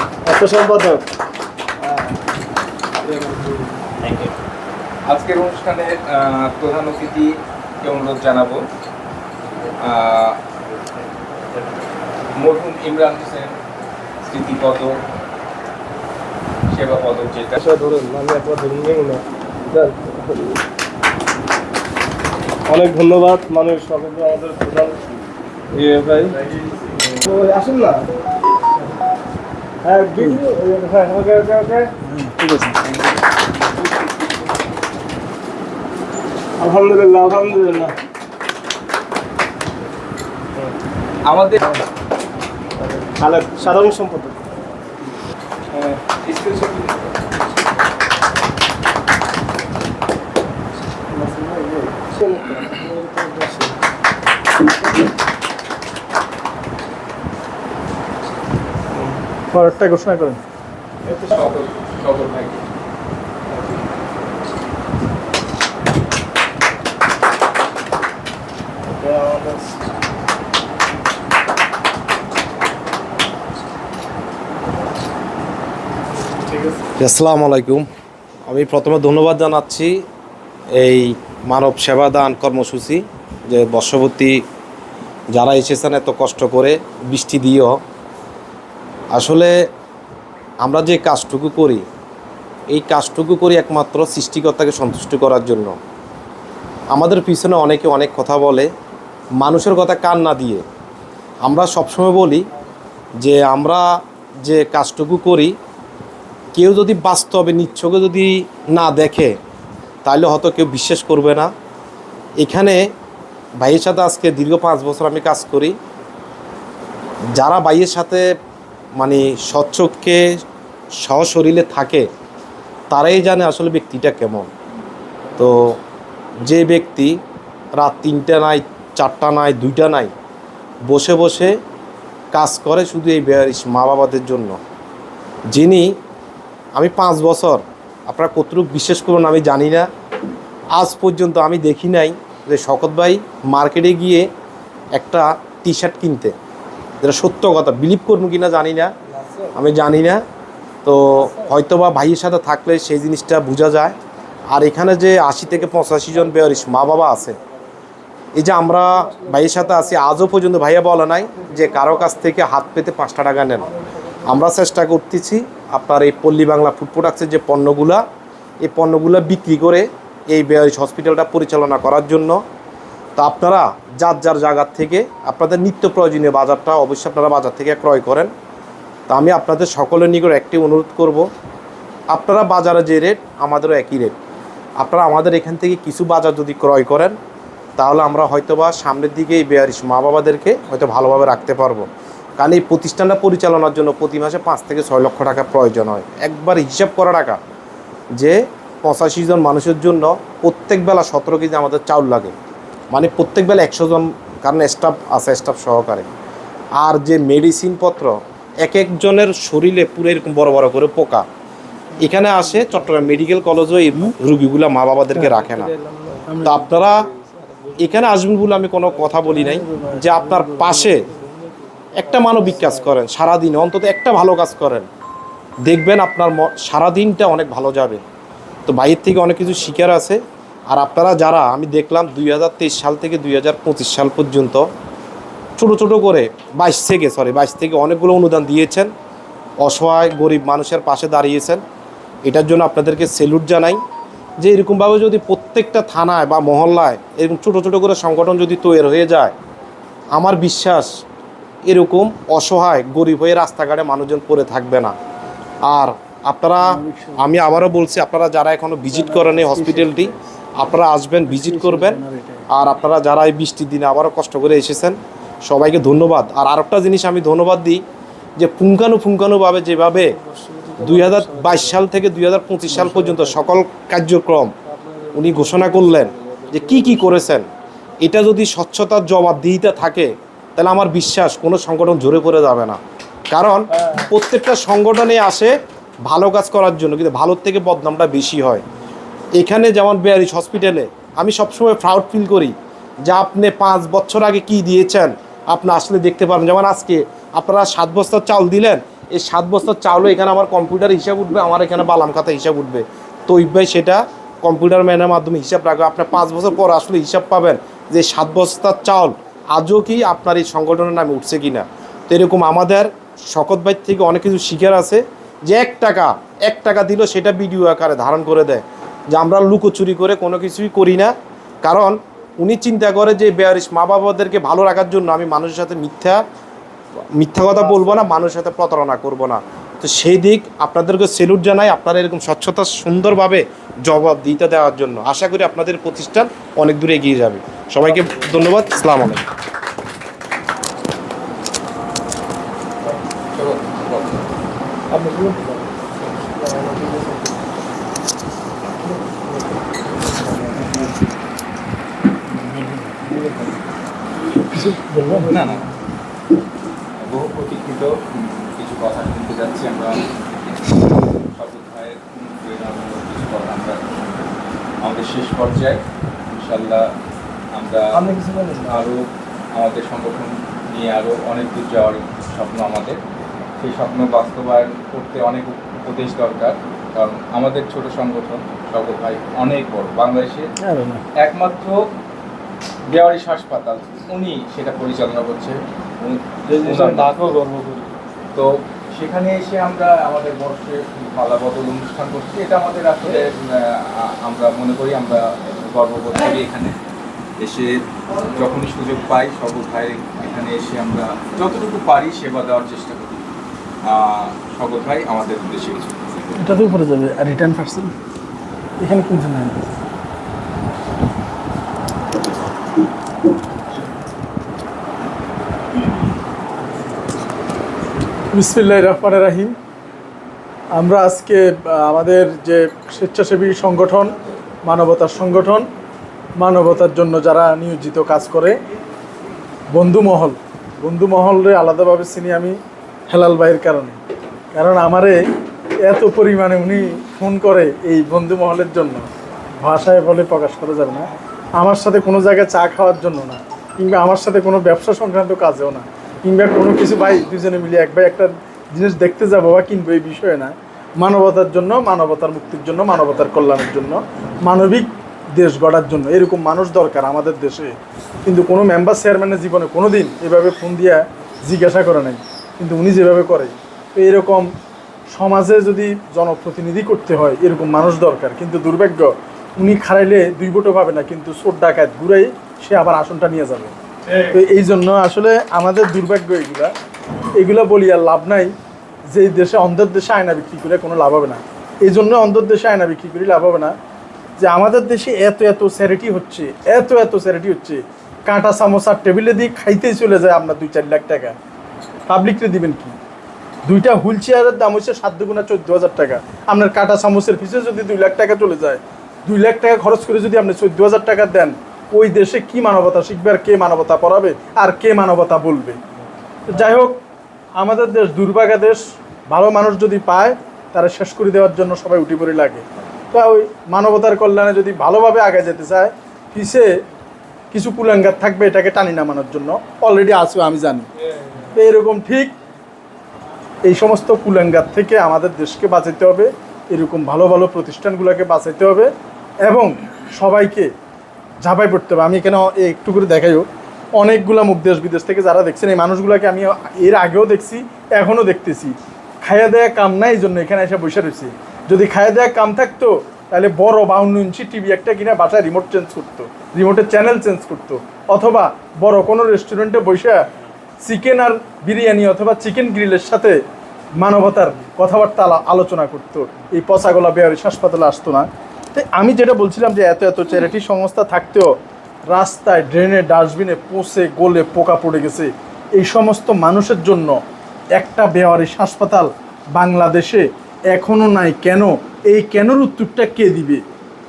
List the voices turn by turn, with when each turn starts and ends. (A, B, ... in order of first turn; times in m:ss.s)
0:00.2-0:01.0 A
0:01.8-0:02.1 A
0:03.0-0:03.7 A
0:05.1-0:07.3 B
0:07.8-0:08.6 B
0:09.8-0:10.4 B
0:12.4-0:13.5 B
0:14.2-0:14.9 B
0:16.7-0:17.6 B
0:17.6-0:20.6 A
0:22.6-0:25.0 A
0:25.7-0:28.0 A
0:29.8-0:31.9 A
0:32.0-0:32.8 C
0:36.6-0:37.9 A
0:41.2-0:41.6 B
0:43.2-0:44.4 A
0:45.8-0:47.1 B
0:51.3-0:53.7 A
0:59.5-1:00.4 C
1:01.1-1:02.6 B
1:08.9-1:09.4 C
1:09.1-1:09.6 A
1:16.4-1:16.8 C
1:17.0-1:17.8 D
1:18.5-1:20.0 D
1:20.8-1:24.4 D
1:25.3-1:27.7 D
1:29.1-1:29.5 D
1:30.6-1:31.8 D
1:32.7-1:35.7 D
1:36.9-1:38.7 D
1:39.4-1:40.6 D
1:41.4-1:42.4 D
1:43.2-1:45.5 D
1:46.5-1:49.3 D
1:50.0-1:51.5 D
1:52.4-1:52.8 D
1:53.6-1:55.8 D
1:57.3-1:58.2 D
1:59.0-2:00.2 D
2:01.0-2:02.1 D
2:02.9-2:04.5 D
2:05.4-2:05.8 D
2:06.4-2:07.2 D
2:07.8-2:10.1 D
2:10.9-2:11.6 D
2:12.3-2:14.6 D
2:15.5-2:15.9 D
2:16.8-2:19.9 D
2:20.8-2:24.3 D
2:24.9-2:26.3 D
2:27.0-2:28.9 D
2:29.1-2:29.5 A
2:29.5-2:30.2 D
2:30.8-2:34.0 D
2:34.5-2:37.4 D
2:38.4-2:43.7 D
2:39.1-2:39.9 A
2:44.2-2:48.0 D
2:48.6-2:52.4 D
2:53.2-2:58.3 D
2:59.1-3:01.3 D
3:02.1-3:04.1 D
3:04.8-3:07.2 D
3:07.8-3:11.8 D
3:12.4-3:17.4 D
3:18.2-3:22.3 D
3:22.9-3:26.1 D
3:26.8-3:31.2 D
3:32.0-3:32.3 C
3:32.0-3:35.7 D
3:35.2-3:38.1 A
3:36.3-3:36.6 C
3:36.4-3:37.1 D
3:37.8-3:41.0 D
3:38.8-3:39.5 A
3:39.3-3:40.9 C
3:41.1-3:42.9 A
3:41.9-3:44.9 D
3:45.6-3:48.0 D
3:48.6-3:54.6 D
3:55.6-3:58.9 D
3:59.6-4:01.6 D
4:02.2-4:03.8 D
4:04.4-4:09.3 D
4:10.1-4:10.9 D
4:11.6-4:14.9 D
4:15.6-4:22.0 D
4:16.6-4:17.5 C
4:18.9-4:20.2 C
4:21.2-4:22.4 C
4:22.5-4:27.8 D
4:28.4-4:30.2 D
4:30.1-4:31.7 A
4:30.8-4:34.5 D
4:32.7-4:33.4 A
4:34.7-4:37.3 A
4:35.1-4:37.5 D
4:38.0-4:42.8 D
4:43.3-4:45.5 D
4:43.7-4:44.1 A
4:46.0-4:48.6 D
4:49.4-4:52.5 D
4:53.0-5:26.2 D
5:27.1-5:39.2 D
5:27.5-5:28.0 A
5:37.9-5:38.5 A
5:42.9-5:44.3 B
5:45.0-5:45.6 A
5:46.4-5:47.3 A
5:50.0-5:50.9 A
5:50.6-5:50.9 C
5:52.3-5:53.1 C
5:53.1-5:53.4 A
5:54.5-5:55.4 A
5:55.3-5:55.7 B
5:57.0-6:04.3 B
6:04.8-6:05.8 B
6:06.4-6:06.9 B
6:07.6-6:08.0 B
6:07.9-6:08.8 A
6:08.7-6:13.0 B
6:13.6-6:20.5 B
6:20.6-6:21.0 C
6:21.2-6:21.8 B
6:22.9-6:27.2 B
6:26.5-6:27.9 A
6:28.3-6:36.7 B
6:37.4-6:43.3 B
6:43.9-6:46.4 B
6:46.4-6:47.9 C
6:48.8-6:49.7 C
6:58.3-6:59.6 C
7:00.8-7:05.7 C
7:06.4-7:08.6 C
7:09.7-7:12.6 C
7:13.1-7:14.0 C
7:14.5-7:15.2 C
7:15.8-7:19.0 C
7:19.6-7:37.7 C
7:38.2-7:44.5 C
7:45.1-7:53.7 C
7:54.3-7:56.7 C
7:57.4-7:58.5 C
7:59.1-8:03.7 C
8:04.4-8:11.3 C
8:12.1-8:12.9 C
8:13.6-8:25.8 C
8:26.5-8:27.0 C
8:27.6-8:36.7 C
8:37.5-8:40.9 C
8:41.5-8:42.3 C
8:43.6-8:48.9 C
8:49.4-8:50.7 C
8:51.4-8:53.4 C
8:54.0-9:10.2 C
9:10.8-9:13.4 C
9:14.0-9:21.5 C
9:22.1-9:27.2 C
9:27.8-9:33.6 C